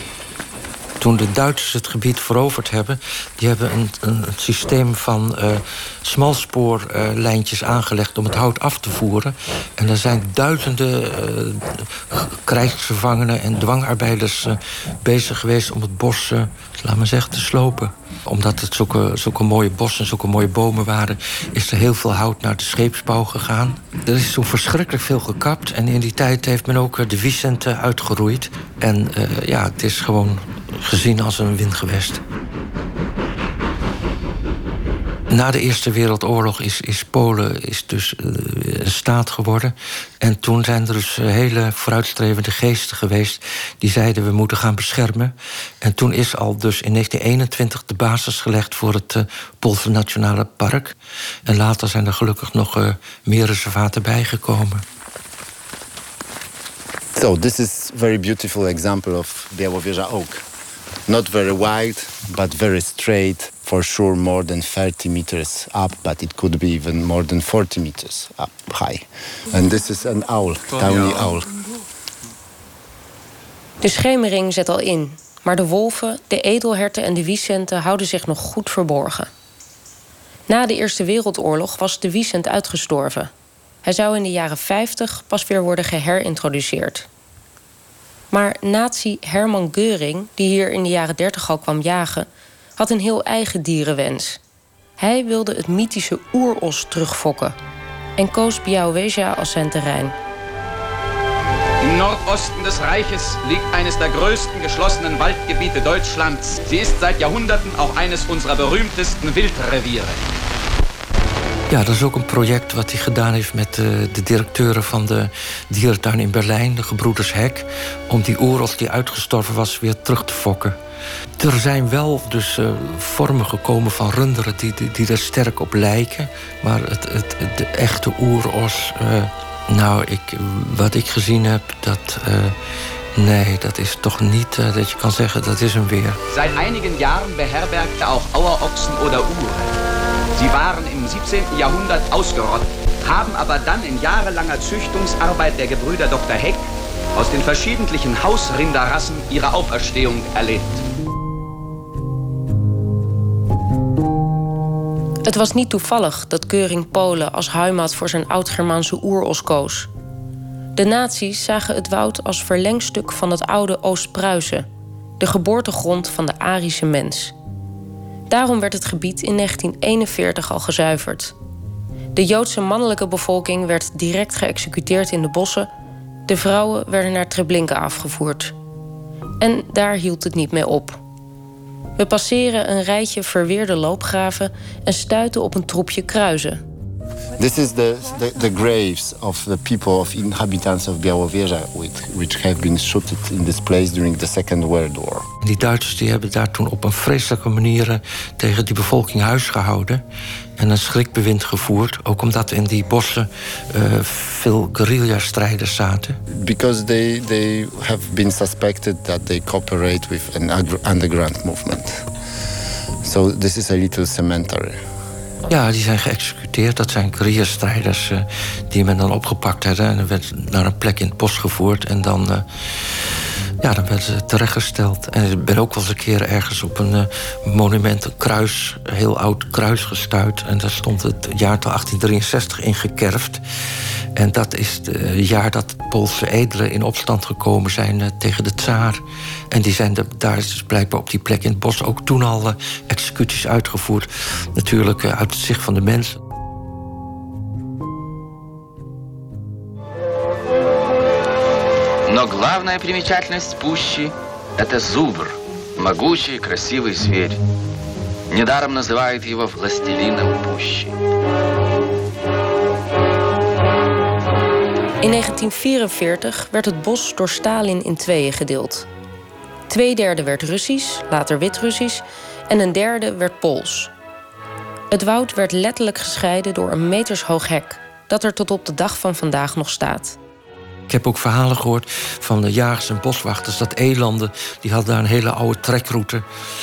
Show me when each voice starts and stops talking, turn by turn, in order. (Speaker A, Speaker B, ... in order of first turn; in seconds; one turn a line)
Speaker A: 1.0-32.2
Speaker A: 35.3-54.8
Speaker B: 57.1-60.4
Speaker B: 61.1-71.5
Speaker C: 73.8-79.3
Speaker C: 80.5-83.3
Speaker C: 83.8-87.1
Speaker C: 88.3-94.4
Speaker C: 95.0-97.6
Speaker C: 98.2-100.2
Speaker D: 101.8-110.2
Speaker A: 111.7-120.8
Speaker A: 121.4-132.6
Speaker A: 133.2-136.2
Speaker D: 136.3-139.7
Speaker D: 140.3-150.8
Speaker C: 155.2-159.9
Speaker C: 160.8-164.7
Speaker C: 165.2-167.3
Speaker C: 168.3-171.3
Speaker C: 172.1-175.7
Speaker C: 176.3-178.5
Speaker C: 179.4-181.0
Speaker C: 182.0-186.6
Speaker B: 187.4-195.3
Speaker A: 195.4-200.0
Speaker A: 200.6-206.2
Speaker B: 206.3-212.1
Speaker B: 213.0-214.8
Speaker A: 215.5-222.5
Speaker A: 223.6-233.4
Speaker A: 234.2-246.2
Speaker E: 252.1-257.4
Speaker E: 258.3-260.9
Speaker C: 265.0-268.9
Speaker C: 269.7-273.9
Speaker C: 274.9-280.2
Speaker A: 280.9-286.2